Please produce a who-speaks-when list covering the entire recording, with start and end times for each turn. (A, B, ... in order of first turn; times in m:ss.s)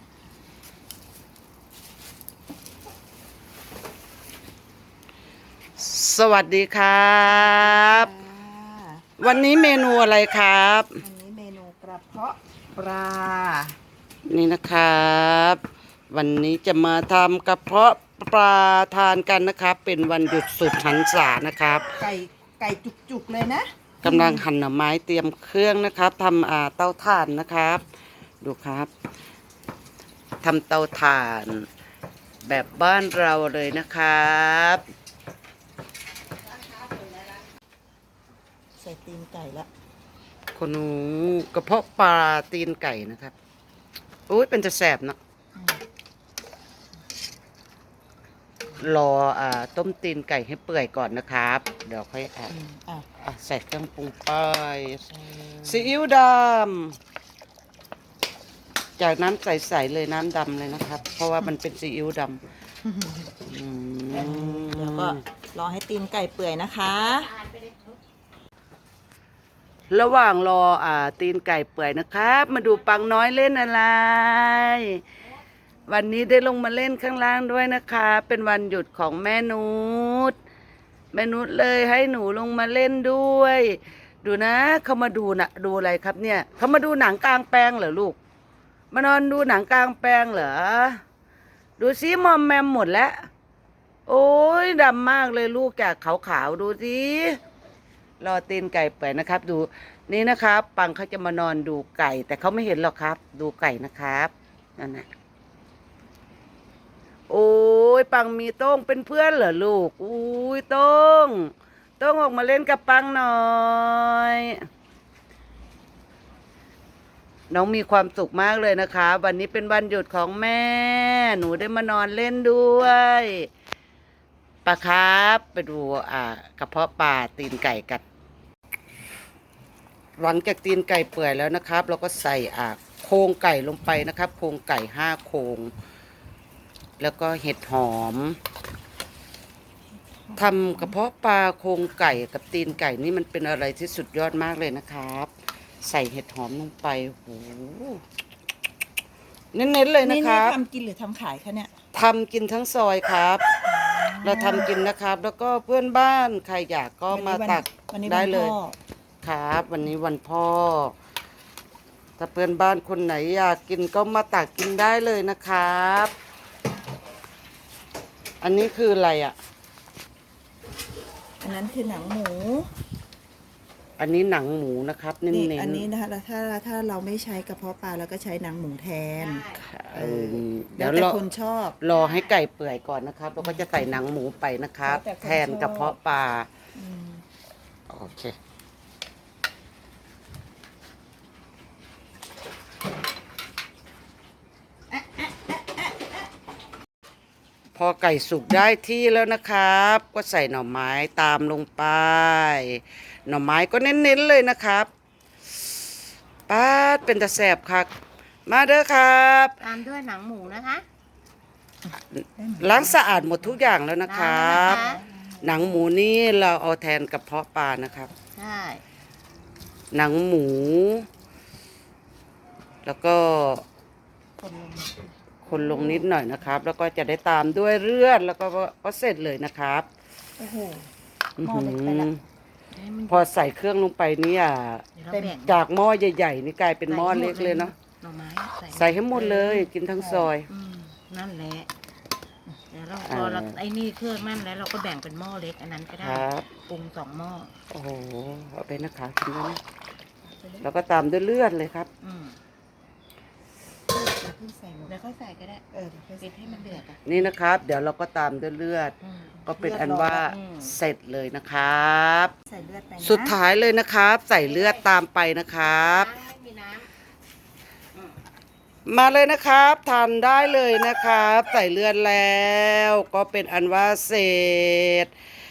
0:05.8-0:08.1 A
0:07.3-0:09.0 B
0:09.2-0:11.0 A
0:11.0-0:13.8 B
0:14.3-0:15.6 A
0:16.1-0:21.9 A
0:22.0-0:24.4 B
0:24.0-0:27.9 A
0:28.4-0:28.9 A
0:30.4-0:31.7 A
0:32.4-0:34.8 A
0:38.8-0:39.7 B
0:40.6-0:43.3 A
0:44.3-0:45.2 A
0:45.6-0:45.8 B
0:48.8-0:52.5 A
0:52.5-0:53.1 B
0:53.2-0:55.1 A
0:55.2-0:55.9 B
0:55.6-0:57.0 A
0:59.0-1:02.4 A
1:02.9-1:03.3 B
1:03.5-1:05.2 A
1:04.1-1:07.4 B
1:07.3-1:07.8 C
1:09.9-1:15.0 A
1:15.9-1:20.4 A
1:21.1-1:28.2 A
1:28.9-1:31.0 A
1:31.8-1:33.3 A
1:34.1-1:37.4 A
1:38.2-1:45.1 A
1:47.3-1:54.7 A
1:57.5-2:03.5 A
2:04.6-2:08.0 A
2:10.2-2:15.7 A
2:17.0-2:18.4 A
2:20.2-2:21.0 B
2:20.4-2:25.3 A
2:25.8-2:28.0 A
2:29.5-2:30.6 A
2:30.0-2:31.7 B
2:31.9-2:33.4 A
2:33.7-2:34.7 B
2:34.2-2:38.6 A
2:37.1-2:38.8 B
2:39.2-2:41.0 A
2:42.2-2:46.1 A
2:48.4-2:49.4 A
2:51.4-2:52.7 B
2:54.0-2:55.9 A
2:55.3-3:01.8 B
2:59.2-2:59.6 C
2:59.6-3:01.2 A
3:01.8-3:06.5 A
3:01.9-3:02.3 C
3:03.4-3:03.7 B
3:04.8-3:06.0 B
3:06.8-3:07.2 B
3:07.9-3:08.4 A
3:14.9-3:15.9 B
3:17.8-3:24.9 A
3:26.5-3:27.9 A
3:28.5-3:29.6 A
3:29.6-3:30.8 C
3:32.4-3:33.6 B
3:32.6-3:34.8 A
3:34.1-3:35.0 C
3:34.5-3:35.8 B
3:35.4-3:38.1 A
3:38.4-3:38.8 C
3:39.9-3:41.1 A
3:42.8-3:43.6 A
3:44.4-3:46.1 B
3:45.4-3:49.9 A
3:50.4-3:50.9 B
3:51.4-3:52.2 A
3:51.4-3:52.1 B
3:52.7-3:53.4 C
3:53.1-3:57.7 A
3:55.0-3:55.6 C
3:56.9-3:59.7 C
3:58.7-4:00.5 A
4:00.0-4:00.3 B
4:00.5-4:01.7 C
4:02.7-4:07.5 C
4:03.0-4:03.6 A
4:06.0-4:06.5 A
4:07.7-4:09.6 A
4:10.2-4:10.7 B
4:10.6-4:11.9 A
4:12.0-4:12.4 C
4:13.9-4:15.0 B
4:14.9-4:15.6 C
4:15.7-4:16.9 B
4:16.2-4:17.2 C
4:17.0-4:22.3 A
4:19.0-4:20.8 C
4:19.6-4:20.2 B
4:22.5-4:23.4 B
4:23.0-4:26.1 A
4:24.4-4:24.8 C
4:25.6-4:26.9 C
4:28.9-4:35.1 A